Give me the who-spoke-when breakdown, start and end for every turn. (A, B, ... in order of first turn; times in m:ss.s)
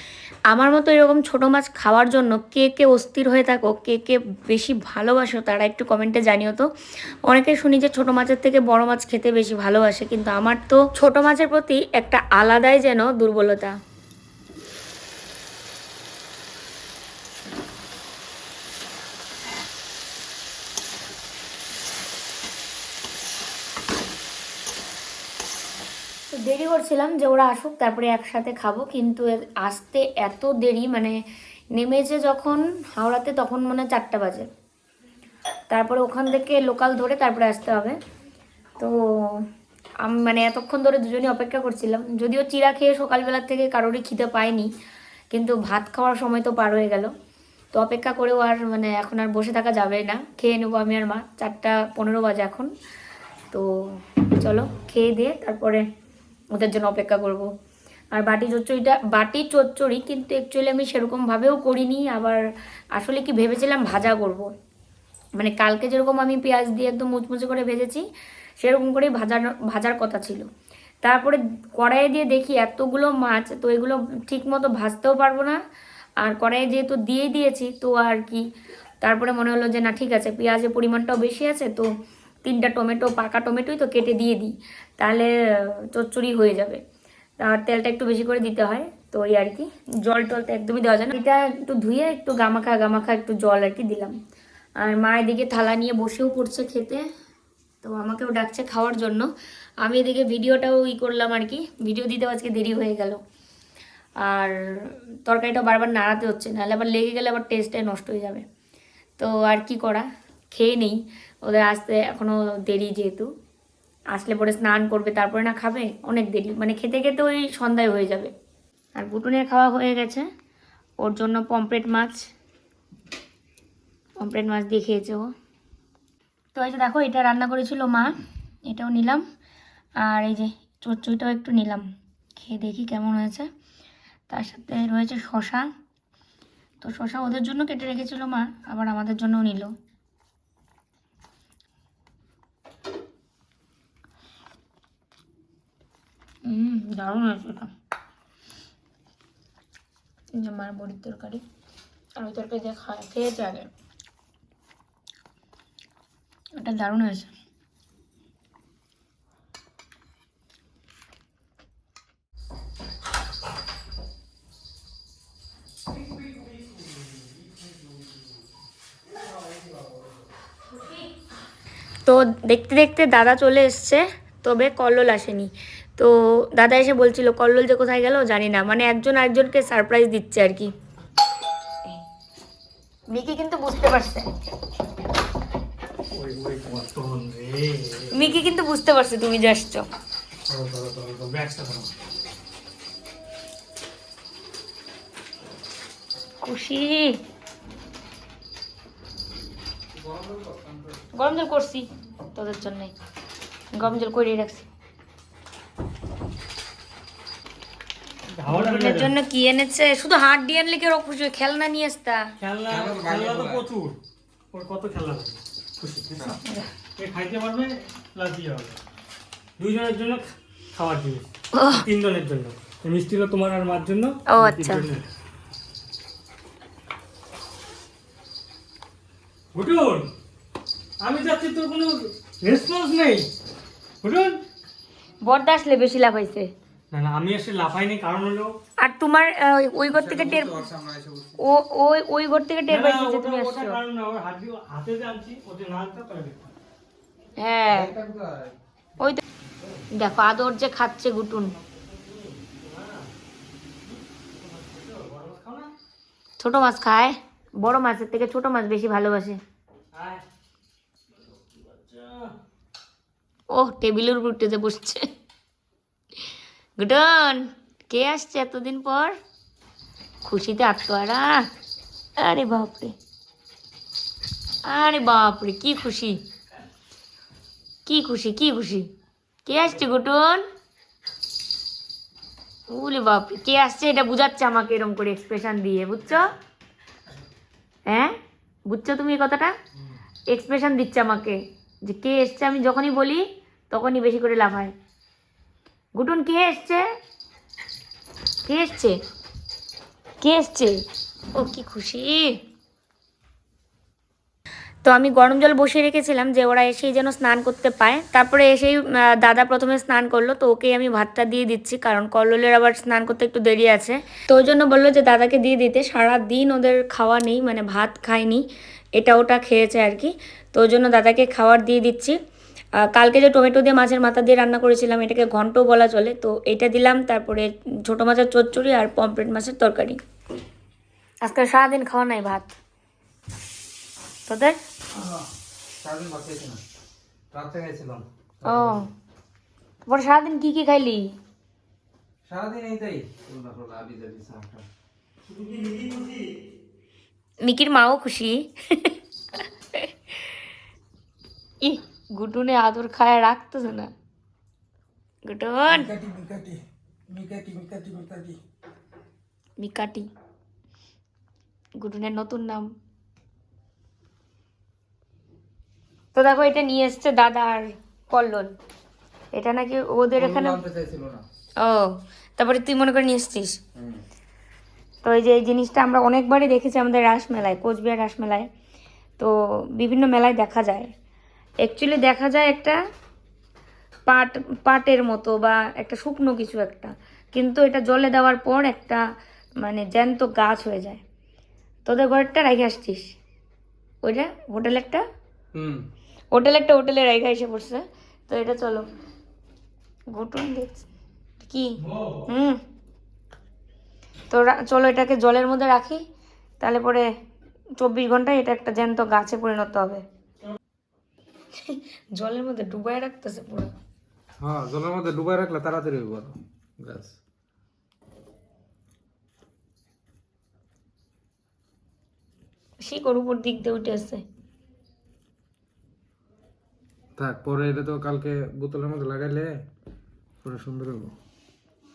0:00.5-0:06.7 A
0:07.3-0:13.8 A
0:26.3-0:31.2 A
0:31.7-0:34.5 A
0:35.7-0:38.0 A
0:38.8-0:39.5 A
0:40.0-0:44.7 A
0:45.3-0:47.1 A
0:47.7-0:52.7 A
0:53.5-0:55.8 A
0:56.5-0:57.5 A
0:58.1-1:02.4 A
1:03.0-1:04.5 A
1:05.4-1:08.0 A
1:08.6-1:10.5 A
1:11.0-1:15.6 A
1:16.2-1:18.4 A
1:19.0-1:21.9 A
1:22.4-1:26.8 A
1:27.4-1:34.2 A
1:34.8-1:37.1 A
1:37.8-1:43.2 A
1:44.2-1:48.4 A
1:49.2-1:53.3 A
1:54.1-1:58.3 A
1:59.0-2:00.3 A
2:01.0-2:02.3 A
2:04.2-2:05.3 A
2:06.5-2:09.2 A
2:10.0-2:13.5 A
2:14.3-2:15.7 A
2:16.8-2:19.7 A
2:26.4-2:27.7 A
2:30.3-2:31.4 A
2:32.2-2:33.7 A
2:36.6-2:37.3 A
2:52.0-3:00.7 A
3:03.1-3:04.3 A
3:06.1-3:08.4 B
3:08.1-3:09.8 A
3:10.5-3:11.9 B
3:16.4-3:17.2 A
3:19.9-3:21.1 C
3:21.1-3:22.9 A
3:23.7-3:24.7 A
3:28.4-3:29.1 B
3:28.5-3:32.3 A
3:32.4-3:34.0 B
3:32.7-3:33.6 C
3:34.5-3:36.4 B
3:36.4-3:36.7 A
3:37.0-3:38.8 B
3:39.6-3:45.0 B
3:41.5-3:41.8 A
3:44.3-3:44.8 A
3:49.5-3:50.1 B
3:51.0-3:53.3 B
3:54.0-3:54.4 B
3:55.2-3:56.5 A
3:56.9-3:58.6 B
3:58.8-4:00.6 A
3:59.9-4:01.4 C
4:01.4-4:03.8 A
4:02.7-4:06.5 B
4:07.4-4:07.9 A
4:07.7-4:08.6 C
4:09.5-4:09.9 B
4:09.9-4:11.5 A
4:11.6-4:13.1 B
4:13.8-4:15.7 B
4:16.4-4:19.4 A
4:19.9-4:20.2 B
4:21.2-4:22.3 B
4:23.5-4:25.1 A
4:26.8-4:29.2 A
4:30.2-4:31.5 A
4:32.2-4:32.9 A
4:34.7-4:36.2 A
4:37.8-4:38.9 A
4:39.4-4:40.5 A
4:42.7-4:46.3 A
4:47.9-4:48.1 A
4:48.7-4:49.6 A
4:50.3-4:54.7 A
4:56.0-4:56.9 A
4:58.4-4:59.0 A
5:00.2-5:02.4 A
5:04.8-5:18.4 A
5:19.0-5:22.2 A
5:22.8-5:30.0 A
5:31.2-5:32.5 A
5:34.3-5:34.6 A
5:34.9-5:35.2 C
5:35.8-5:36.6 C
5:37.3-5:38.8 C
5:38.4-5:38.9 A
5:39.9-5:41.1 A
5:42.2-5:44.6 C
5:45.3-5:46.3 B
5:47.4-5:50.4 A
5:51.6-5:53.9 A
5:55.2-5:55.9 A
5:55.7-5:56.6 C
5:57.1-5:58.4 C
5:59.6-6:00.1 A
6:01.8-6:02.7 A
6:06.1-6:08.6 A
6:09.3-6:10.6 A
6:10.2-6:11.2 C
6:11.6-6:13.6 A
6:13.7-6:14.0 C
6:15.0-6:18.5 A
6:19.2-6:20.9 A
6:21.6-6:22.8 A
6:24.1-6:29.0 A
6:29.6-6:31.0 A
6:31.8-6:33.1 A
6:34.0-6:35.0 A
6:35.5-6:35.8 C
6:36.3-6:38.9 A
6:40.1-6:40.8 A
6:41.4-6:42.6 A
6:44.3-6:46.0 A
6:46.6-6:47.1 A
6:47.8-6:50.0 A
6:51.5-6:53.7 A
6:54.4-6:57.2 C
7:02.8-7:04.2 A
7:07.2-7:09.5 C
7:10.4-7:11.1 C